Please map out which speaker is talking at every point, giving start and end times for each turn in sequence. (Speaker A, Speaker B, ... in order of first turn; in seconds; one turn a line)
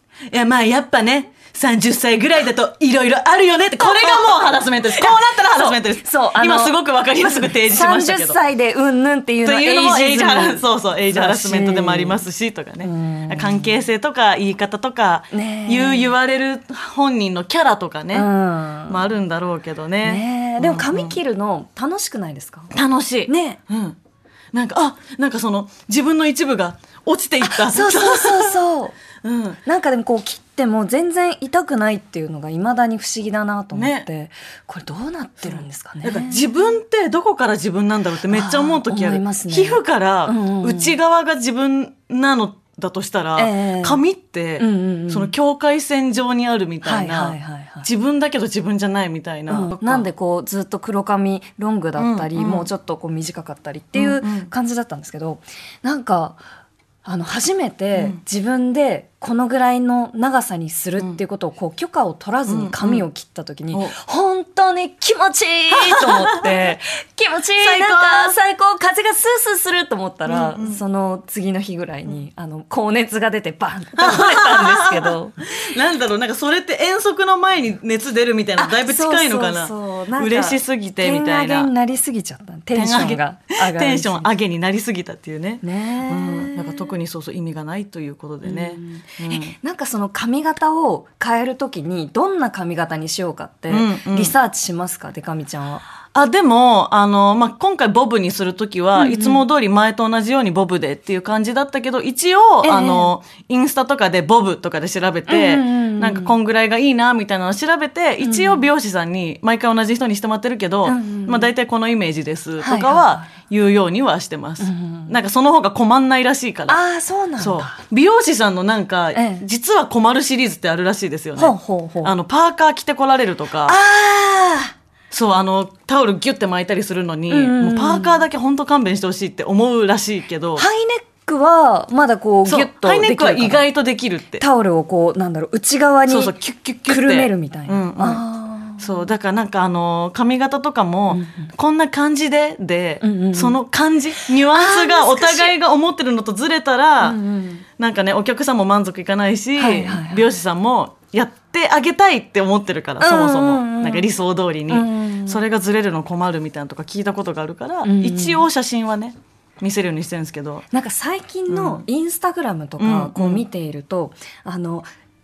Speaker A: 0.3-8.4
Speaker B: 3.8-12.2
Speaker A: 9.4-18.3
Speaker B: 12.8-13.7
Speaker B: 15.3-16.1
Speaker B: 18.1-19.1
Speaker A: 18.9-21.2
Speaker B: 20.0-22.7
Speaker A: 22.7-24.0
Speaker B: 23.3-23.6
Speaker A: 24.5-28.6
Speaker B: 27.4-29.0
Speaker A: 29.2-29.6
Speaker B: 29.6-36.5
Speaker A: 33.7-34.1
Speaker A: 35.4-50.1
Speaker B: 38.3-41.0
Speaker B: 43.4-44.0
Speaker B: 44.6-45.3
Speaker B: 46.8-47.9
Speaker B: 49.5-56.4
Speaker A: 52.0-52.7
Speaker A: 54.0-54.5
Speaker B: 57.0-75.4
Speaker A: 58.0-58.2
Speaker A: 62.5-63.0
Speaker A: 65.7-66.7
Speaker A: 67.6-68.4
Speaker A: 70.3-70.8
Speaker A: 74.0-81.7
Speaker B: 78.6-84.3
Speaker A: 82.8-89.5
Speaker B: 85.6-86.9
Speaker B: 88.4-95.8
Speaker A: 93.7-94.3
Speaker A: 96.1-116.8
Speaker B: 99.0-99.4
Speaker B: 102.6-103.1
Speaker B: 105.3-106.3
Speaker B: 108.2-108.6
Speaker B: 110.8-111.5
Speaker B: 112.6-113.3
Speaker B: 114.6-115.1
Speaker B: 116.7-117.8
Speaker A: 117.4-123.8
Speaker B: 119.2-119.4
Speaker B: 121.4-122.2
Speaker B: 123.7-124.7
Speaker A: 125.1-130.6
Speaker B: 127.3-128.3
Speaker B: 130.6-133.7
Speaker A: 132.5-134.4
Speaker B: 134.4-136.3
Speaker A: 136.1-138.2
Speaker B: 136.9-138.9
Speaker A: 138.8-147.2
Speaker B: 141.1-141.5
Speaker B: 143.0-143.6
Speaker B: 144.5-145.5
Speaker B: 147.0-147.6
Speaker A: 147.8-160.7
Speaker B: 149.6-150.2
Speaker B: 153.0-154.1
Speaker B: 154.7-155.4
Speaker B: 157.8-158.5
Speaker B: 160.7-164.9
Speaker A: 161.5-161.9
Speaker A: 162.8-163.4